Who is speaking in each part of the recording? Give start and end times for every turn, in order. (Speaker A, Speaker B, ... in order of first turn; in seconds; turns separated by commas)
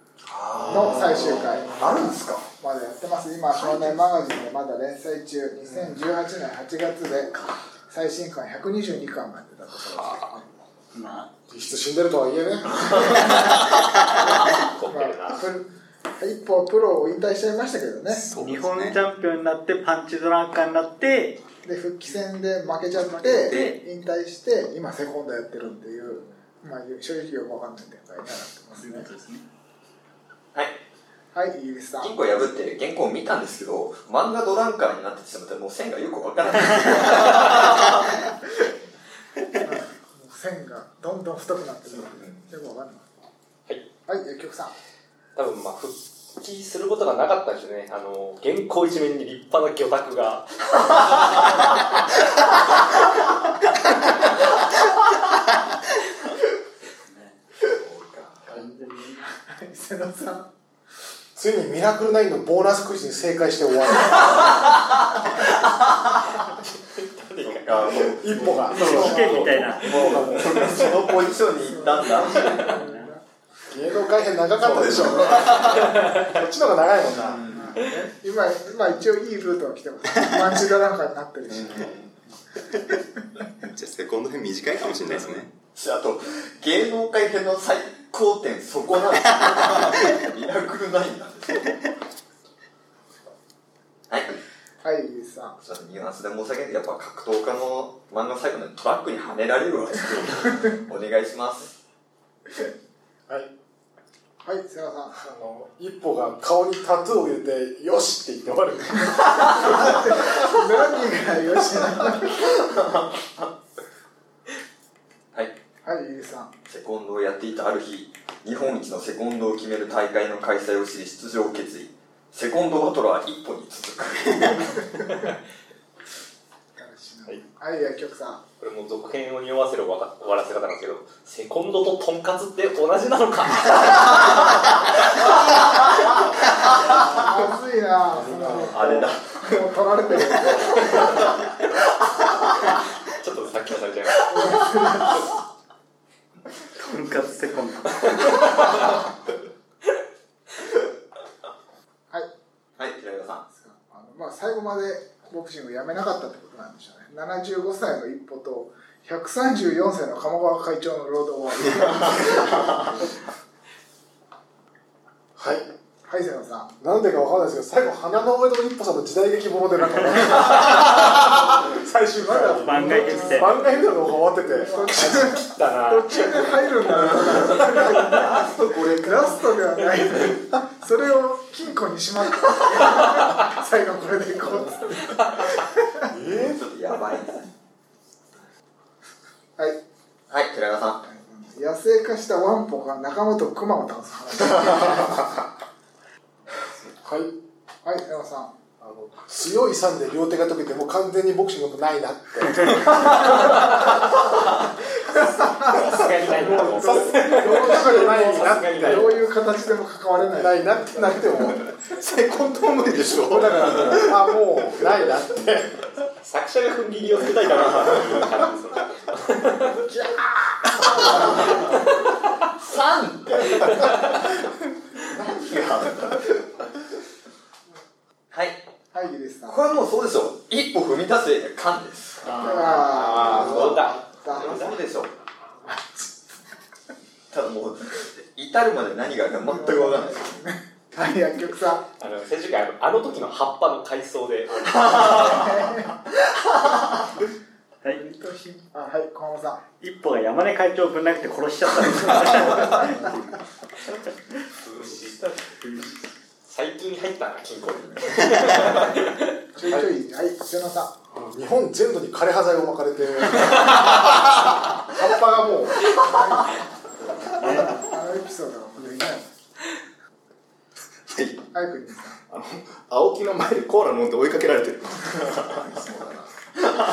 Speaker A: 0.4-2.5, Speaker B: 0.7-10.5, Speaker C: 9.9-10.3, Speaker D: 10.9-11.3, Speaker E: 11.5-13.4, Speaker F: 14.4-15.4, Speaker B: 14.9-18.3, Speaker C: 18.1-19.0, Speaker D: 18.3-21.4, Speaker B: 21.6-29.1, Speaker D: 23.1-23.8, Speaker C: 23.2-23.7, Speaker D: 28.7-29.4, Speaker A: 30.5-30.8, Speaker B: 31.3-32.2, Speaker A: 32.0-38.0, Speaker B: 39.6-43.2, Speaker A: 42.0-42.4, Speaker B: 44.1-44.7, Speaker F: 45.4-51.5, Speaker D: 56.9-57.4, Speaker A: 57.7-58.5, Speaker D: 58.5-59.2, Speaker B: 59.1-60.5, Speaker E: 61.4-64.7, Speaker F: 66.7-68.0, Speaker A: 67.4-72.7, Speaker E: 68.0-71.0, Speaker D: 68.7-70.3, Speaker F: 68.9-69.7, Speaker B: 71.7-73.2, Speaker D: 72.6-73.1, Speaker E: 73.7-77.4, Speaker G: 74.7-75.2, Speaker A: 75.2-75.5, Speaker F: 75.8-76.2, Speaker A: 77.2-77.8, Speaker B: 77.5-81.9, Speaker A: 81.5-82.1, Speaker C: 83.6-85.5, Speaker A: 85.7-91.8, Speaker A: 94.1-94.4, Speaker B: 94.8-95.5, Speaker A: 95.6-101.7, Speaker B: 104.4-105.2, Speaker E: 105.1-109.9, Speaker B: 109.7-112.4, Speaker A: 112.1-113.5, Speaker B: 115.8-116.5, Speaker A: 116.7-124.8, Speaker F: 125.0-125.3, Speaker B: 126.8-128.4, Speaker F: 128.6-134.8, Speaker B: 136.8-141.2, Speaker F: 138.2-139.2, Speaker E: 138.3-138.7, Speaker A: 138.7-139.6, Speaker A: 140.9-141.2, Speaker F: 143.0-144.3, Speaker B: 144.3-145.2, Speaker D: 146.6-148.6, Speaker A: 152.8-153.4, Speaker B: 153.5-163.1, Speaker E: 165.3-165.7, Speaker B: 166.0-166.7, Speaker E: 166.8-175.4, Speaker B: 172.1-173.7, Speaker D: 172.6-173.7, Speaker B: 174.4-186.1, Speaker F: 175.4-176.5, Speaker A: 177.2-179.6, Speaker F: 177.5-177.8, Speaker E: 186.1-186.6, Speaker A: 186.4-187.5, Speaker A: 190.3-191.0, Speaker B: 191.0-195.4, Speaker E: 197.0-197.4, Speaker B: 197.8-198.5, Speaker E: 198.8-203.4, Speaker F: 205.6-209.2, Speaker E: 206.3-209.2, Speaker B: 206.8-211.5, Speaker E: 210.3-211.7, Speaker C: 211.9-214.2, Speaker E: 213.2-215.8, Speaker F: 216.2-219.8, Speaker B: 219.8-220.2, Speaker B: 220.8-221.6, Speaker A: 221.1-221.6, Speaker A: 222.6-224.2, Speaker F: 223.7-224.1, Speaker A: 225.0-226.6, Speaker A: 228.3-228.6, Speaker B: 228.9-229.6, Speaker A: 229.5-235.1, Speaker B: 232.3-234.6, Speaker F: 232.7-234.8, Speaker B: 235.7-236.2, Speaker A: 237.3-240.4, Speaker B: 239.4-241.8, Speaker F: 242.0-245.5, Speaker B: 245.2-245.9, Speaker B: 247.9-249.6, Speaker D: 249.8-253.4, Speaker F: 254.6-255.4, Speaker D: 255.6-256.0, Speaker F: 256.4-259.2, Speaker B: 259.5-260.9, Speaker E: 261.1-264.3, Speaker E: 264.8-265.9, Speaker B: 266.0-266.6, Speaker B: 267.2-269.3, Speaker D: 267.4-267.7, Speaker B: 271.5-272.2, Speaker G: 272.3-275.9